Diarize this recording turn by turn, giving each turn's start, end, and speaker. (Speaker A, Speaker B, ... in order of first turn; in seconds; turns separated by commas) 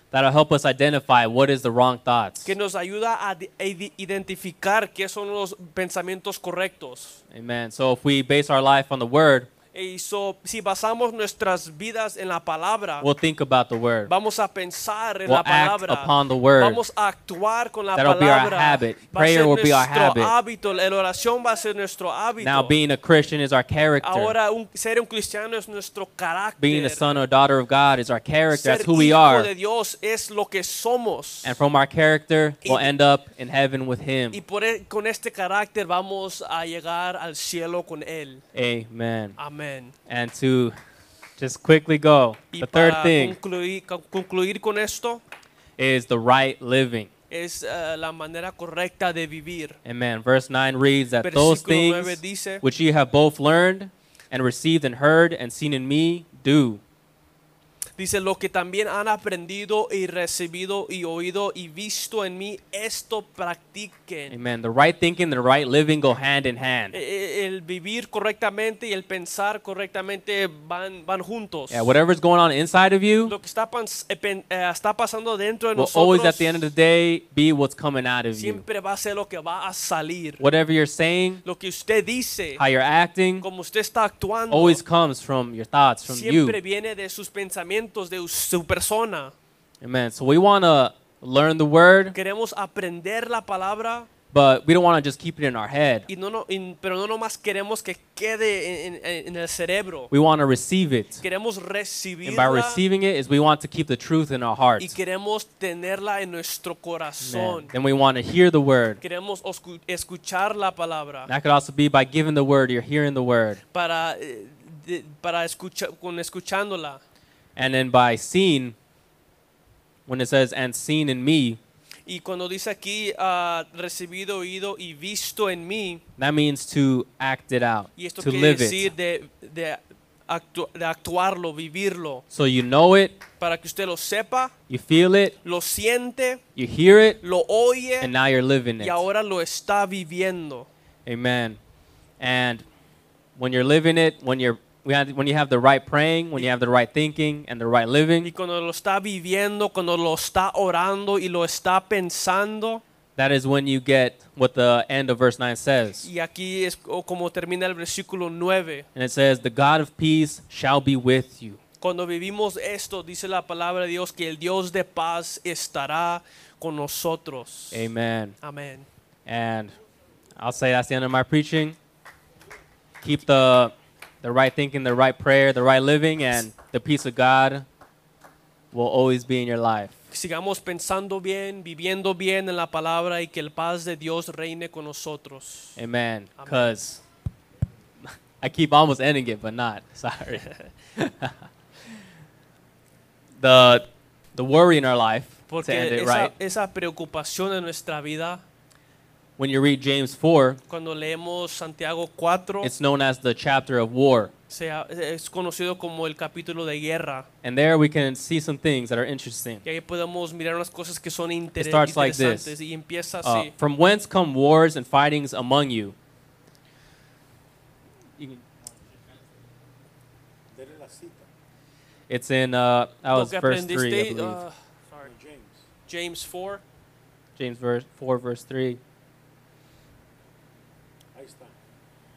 Speaker A: 0.1-2.5, Speaker B: 2.5-7.2, Speaker A: 7.3-9.5, Speaker B: 9.7-13.1, Speaker A: 13.0-14.1, Speaker B: 14.1-22.7, Speaker A: 15.3-16.8, Speaker A: 18.0-20.3, Speaker A: 22.4-24.4, Speaker B: 24.0-27.2, Speaker A: 26.6-29.5, Speaker B: 28.5-31.6, Speaker A: 31.4-34.4, Speaker B: 32.6-32.9, Speaker B: 34.3-38.4, Speaker A: 38.5-39.4, Speaker B: 39.4-40.0, Speaker A: 40.1-40.8, Speaker A: 41.4-43.4, Speaker B: 42.5-45.2, Speaker A: 45.8-47.1, Speaker B: 47.3-49.8, Speaker A: 49.9-56.8, Speaker B: 51.2-52.6, Speaker B: 58.0-64.3, Speaker A: 64.3-67.0, Speaker B: 66.9-71.9, Speaker A: 71.7-73.3, Speaker B: 73.2-76.7, Speaker A: 75.8-78.6, Speaker B: 78.3-80.4, Speaker A: 80.4-81.4, Speaker B: 81.4-82.6, Speaker A: 82.6-83.5, Speaker B: 83.4-84.8, Speaker A: 84.5-86.6, Speaker B: 86.1-89.3, Speaker A: 89.8-92.2, Speaker B: 92.1-94.1, Speaker A: 94.3-96.1, Speaker B: 96.1-100.1, Speaker A: 100.1-101.2, Speaker B: 101.2-102.8, Speaker A: 102.2-104.9, Speaker B: 104.8-107.7, Speaker A: 107.2-109.0, Speaker B: 109.0-111.3, Speaker A: 111.3-113.6, Speaker B: 113.7-117.0, Speaker A: 117.6-118.8, Speaker A: 120.1-121.6, Speaker B: 122.1-126.0, Speaker A: 126.2-128.9, Speaker B: 128.0-132.2, Speaker A: 132.3-133.2, Speaker B: 133.4-134.5, Speaker A: 134.7-135.4, Speaker B: 135.4-136.4, Speaker A: 136.6-137.2, Speaker B: 137.2-138.1, Speaker A: 138.0-139.1, Speaker B: 138.8-140.7, Speaker A: 141.1-141.6, Speaker A: 142.2-142.6, Speaker A: 143.4-148.3, Speaker B: 148.2-152.8, Speaker A: 153.2-156.1, Speaker B: 156.0-158.9, Speaker A: 158.9-161.6, Speaker B: 161.8-167.9, Speaker A: 167.7-168.4, Speaker B: 168.4-168.9, Speaker A: 169.3-169.8, Speaker A: 170.4-171.8, Speaker A: 173.0-177.7, Speaker A: 178.7-179.9, Speaker B: 180.1-185.8, Speaker A: 185.8-187.0, Speaker B: 186.4-186.7, Speaker A: 188.0-191.4, Speaker A: 193.4-196.3, Speaker B: 195.5-198.4, Speaker A: 199.4-200.6, Speaker B: 200.7-202.7, Speaker A: 202.6-204.3, Speaker B: 204.5-207.3, Speaker A: 207.4-209.6, Speaker B: 209.6-213.5, Speaker A: 211.6-212.5, Speaker A: 213.2-215.9, Speaker C: 220.5-221.3, Speaker A: 222.1-224.4, Speaker B: 223.1-225.1, Speaker C: 225.0-225.7, Speaker B: 225.9-226.6, Speaker A: 227.4-228.8, Speaker C: 231.1-231.6